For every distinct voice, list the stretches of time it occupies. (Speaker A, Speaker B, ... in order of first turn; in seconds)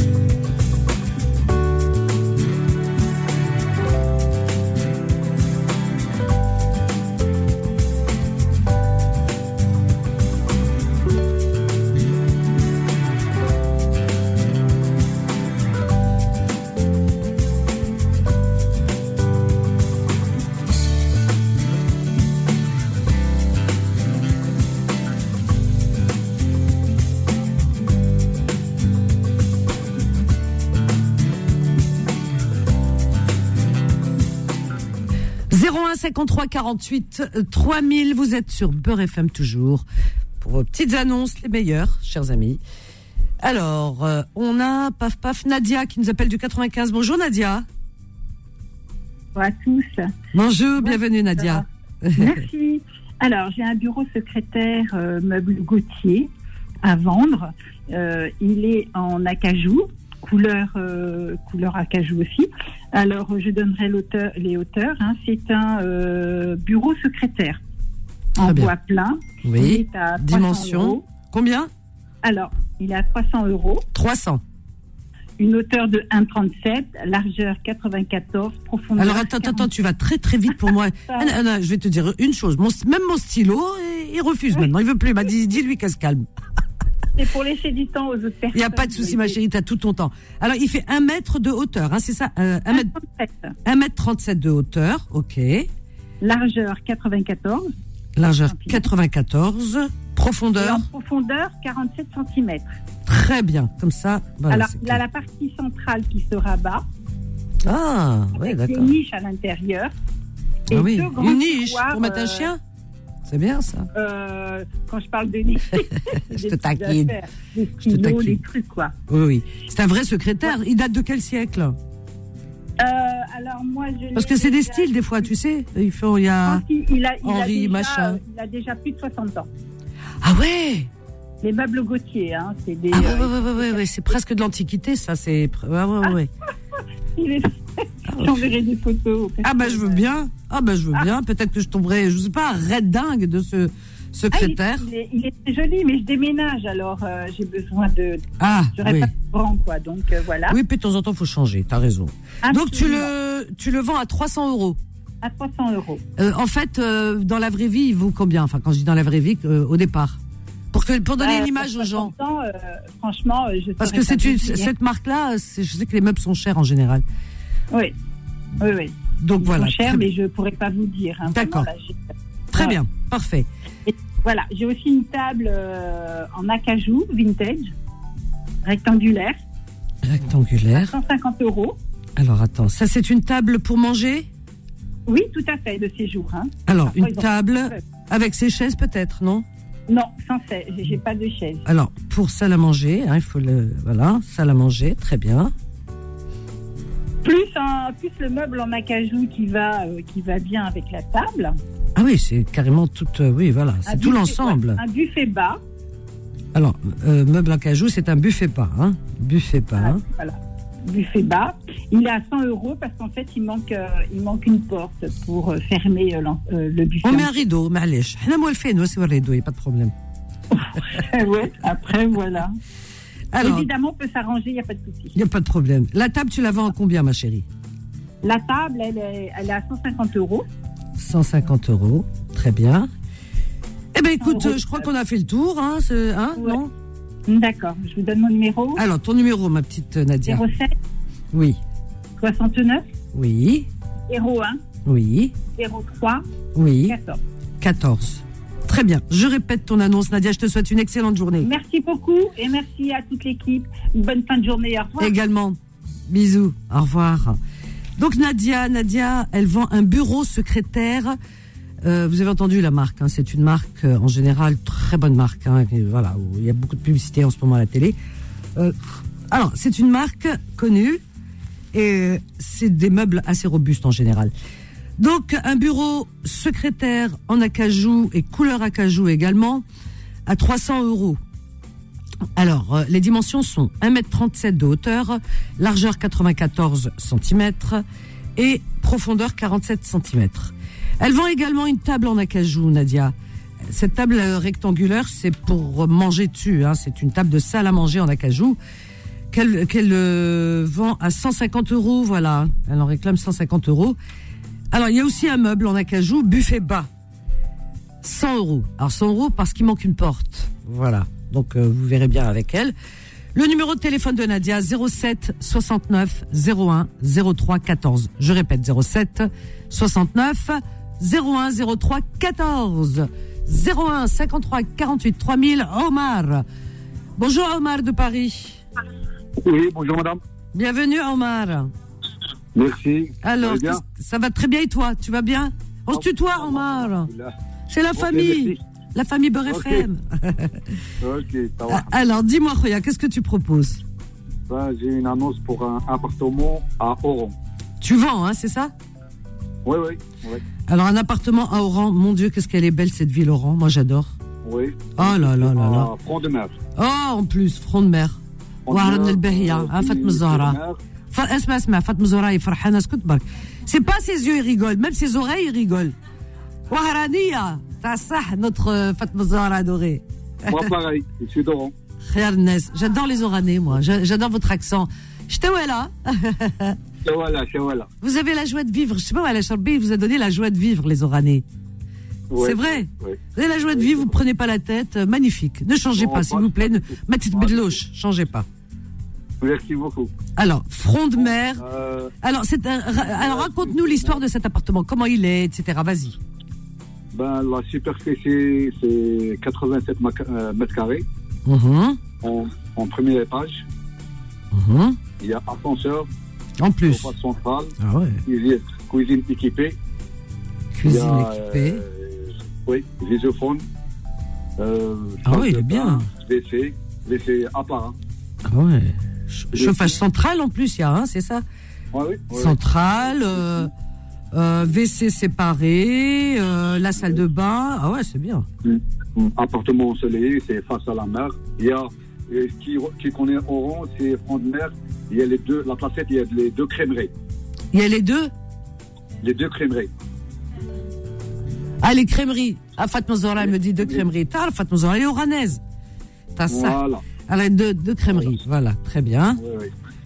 Speaker A: 35.5-39.9, 40.4-42.6, 43.4-47.6, 50.3-52.4, 68.4-68.7, 69.4-71.7, 73.9-74.4, 79.0-86.3, 88.5-92.9, 93.6-95.7, 98.2-100.8, 103.0-105.0, 107.6-108.9, 110.7-112.6, 113.3-113.9, 116.3-117.2, 117.8-118.4, 119.1-121.8, 124.1-126.6, 127.2-128.2, 130.2-130.9, 132.9-136.3, 138.1-138.4, 139.4-144.8, 148.4-149.1, 150.5-154.8, 156.2-160.2, 160.7-162.1, 163.8-167.0, 169.2-170.1, 171.3-171.7, 172.5-173.5, 180.0-180.9, 182.2-184.3, 186.7-189.4, 191.7-195.5, 201.9-204.8, 206.5-210.0, 217.0-219.9, 223.3-223.7, 225.1-227.4, 231.0-232.9, 233.9-236.7, 238.7-240.4, 241.3-241.6, 243.1-243.7, 244.8-245.3, 246.5-247.0, 247.6-251.5, 255.0-257.4, 258.0-261.1, 261.8-268.0, 269.3-271.0, 271.7-274.3, 275.0-279.6, 280.2-281.2, 282.3-287.8, 288.4-298.6, 299.3-304.0, 304.7-306.9, 308.0-312.7, 313.3-326.4, 327.2-328.6, 330.5-331.7, 333.2-337.1, 337.7-340.6, 341.7-343.8, 347.8-348.7, 350.7-354.1, 354.9-355.9, 356.7-360.6, 361.1-365.9, 366.7-370.7, 372.1-376.8, 378.0-381.4, 382.4-388.5, 390.4-391.6, 392.2-396.2, 401.4-402.0, 404.5-405.0, 406.6-407.1, 407.8-408.2, 410.7-411.8, 415.2-416.1, 418.4-421.4, 422.3-423.7, 424.3-428.5, 437.7-438.3, 441.8-445.6, 446.3-449.4
Speaker B: 49.3-50.1, 50.8-51.6, 52.1-56.3, 56.8-67.6, 68.4-71.0, 72.2-73.8, 75.4-79.7, 87.2-89.4, 92.7-93.5, 96.2-97.7, 98.5-98.8, 100.6-102.8, 104.5-106.8, 108.4-109.9, 110.7-112.5, 113.9-118.9, 122.8-124.9, 126.4-129.5, 131.4-133.8, 137.2-140.0, 144.3-150.6, 152.4-153.1, 155.2-156.0, 161.2-164.7, 168.6-172.8, 173.9-177.7, 178.6-179.4, 180.7-181.8, 185.1-187.8, 189.9-191.6, 197.2-201.6, 203.9-205.6, 209.8-217.4, 220.5-222.5, 223.4-225.1, 228.2-230.4, 234.2-234.9, 237.3-238.8, 240.2-240.7, 242.2-242.8, 244.1-244.6, 245.5-246.2, 246.9-247.2, 251.4-255.1
Speaker C: 329.4-330.2, 332.5-333.8, 335.9-337.3, 337.9-338.6, 339.5-339.9, 341.0-341.9, 344.5-347.3, 349.6-350.4, 354.4-356.6, 358.7-360.8, 370.4-371.7, 377.0-377.9, 382.3-384.1, 385.9-387.8, 389.4-390.1, 391.2-392.1, 393.0-394.2, 397.1-401.0, 402.2-403.6, 405.2-406.1, 406.9-409.8, 410.8-413.6, 414.6-417.9, 419.5-419.9, 421.9-423.6, 428.6-437.1, 439.2-439.9, 443.4-444.0, 446.5-447.0, 448.1-448.4, 449.4-449.7